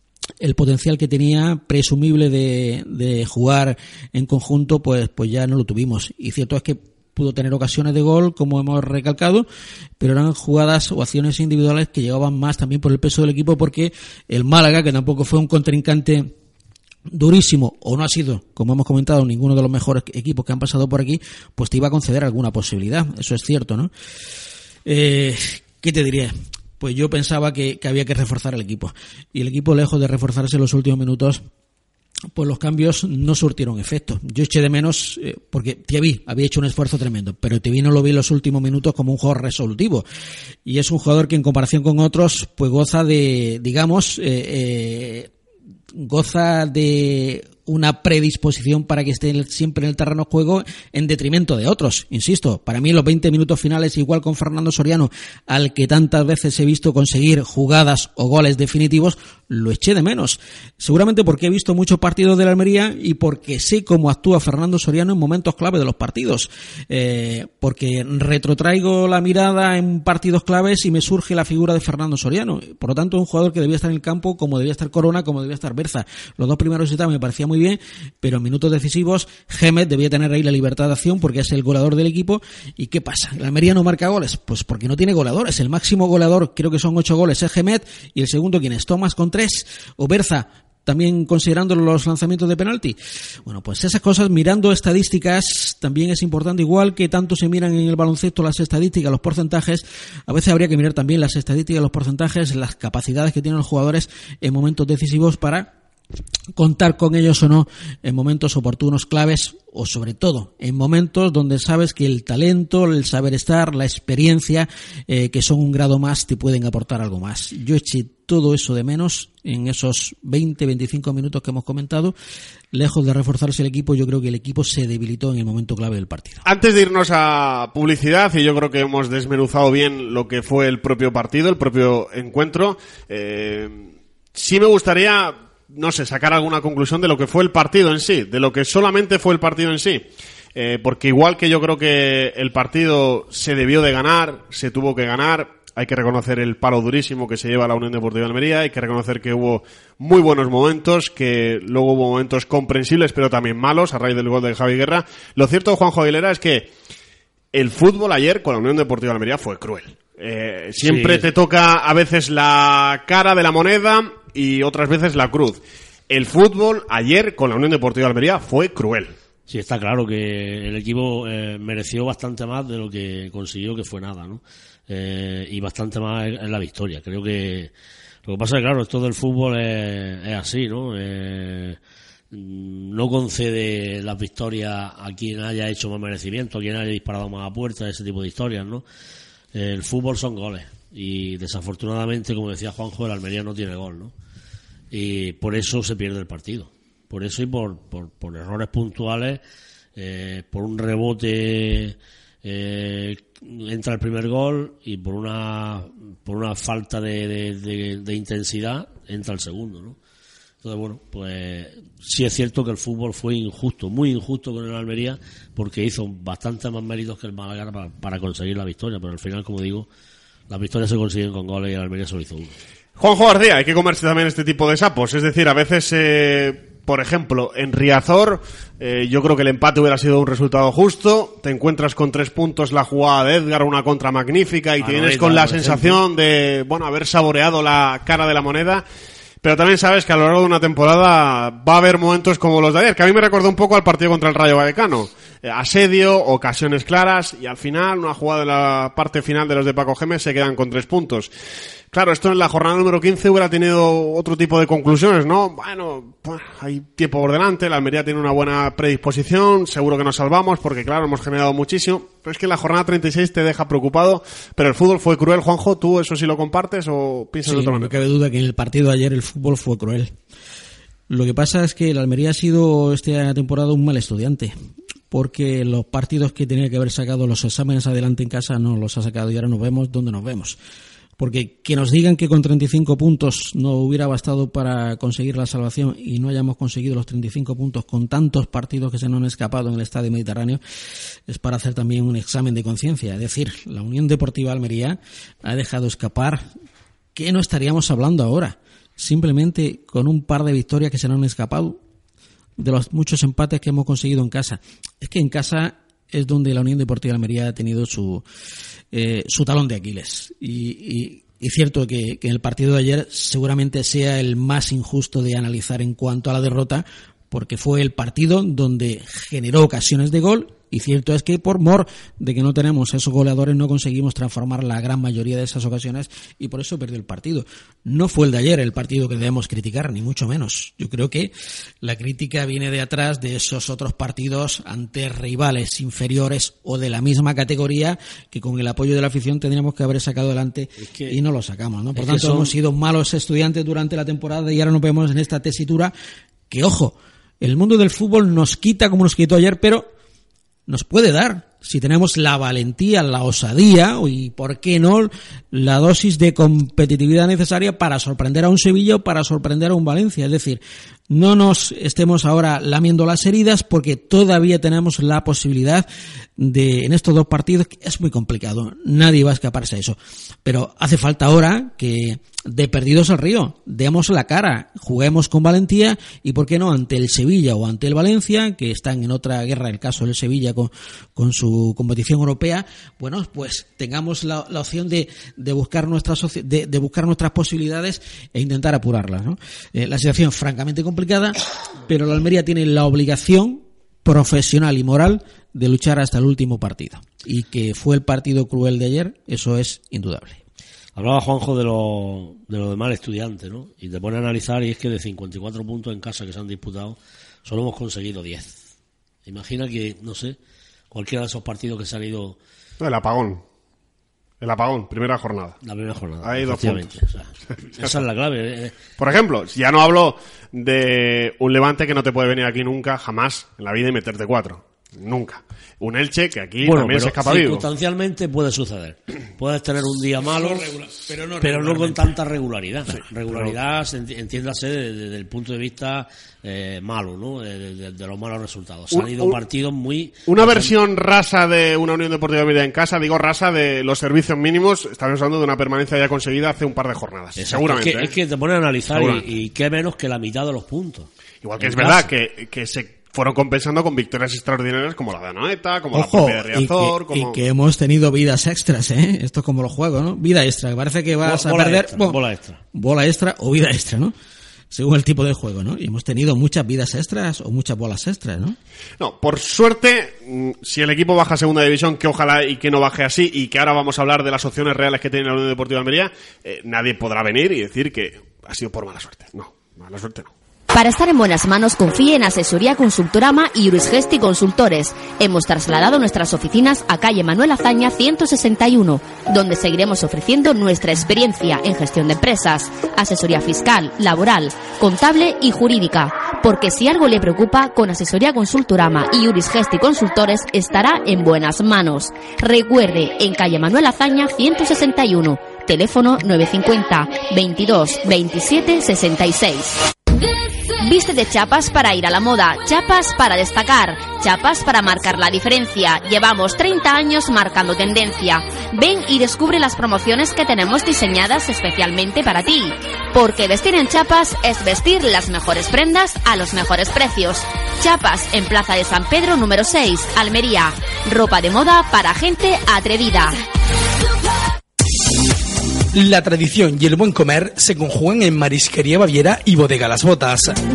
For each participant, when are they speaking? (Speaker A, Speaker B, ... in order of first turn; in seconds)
Speaker A: 0.4-9.5, 10.0-16.3, 17.1-23.9, 24.9-31.4, 32.3-40.0, 40.6-45.3, 46.0-105.7, 106.5-122.2, 122.7-126.4, 267.5-270.1, 271.1-274.5, 275.1-280.6, 281.2-290.6, 291.3-296.5, 297.1-301.8, 302.6-308.2, 308.9-331.3, 331.8-345.9, 346.5-349.9, 350.7-400.4, 430.5-432.0, 455.9-462.2, 462.7-464.1, 464.7-468.6
Speaker B: 126.5-156.7, 157.5-169.1, 223.0-238.8, 239.4-251.3, 251.9-267.9, 412.8-413.4, 414.4-415.6, 416.2-416.9, 419.0-427.6, 432.9-433.6, 438.9-439.4, 440.3-448.1, 448.9-449.2, 451.4-457.4, 469.0-480.3
Speaker C: 160.8-161.3, 169.5-177.7, 178.3-181.8, 182.3-188.8, 189.5-194.1, 194.9-199.4, 200.0-210.0, 210.6-219.9, 220.5-222.6, 234.8-236.0, 340.8-341.2, 342.0-342.5, 401.0-408.6, 409.3-410.4, 410.9-412.4, 415.6-418.7, 426.6-440.7, 447.4-452.1, 461.2-462.6
Speaker D: 480.7-509.8, 510.8-533.4
Speaker E: 535.9-540.6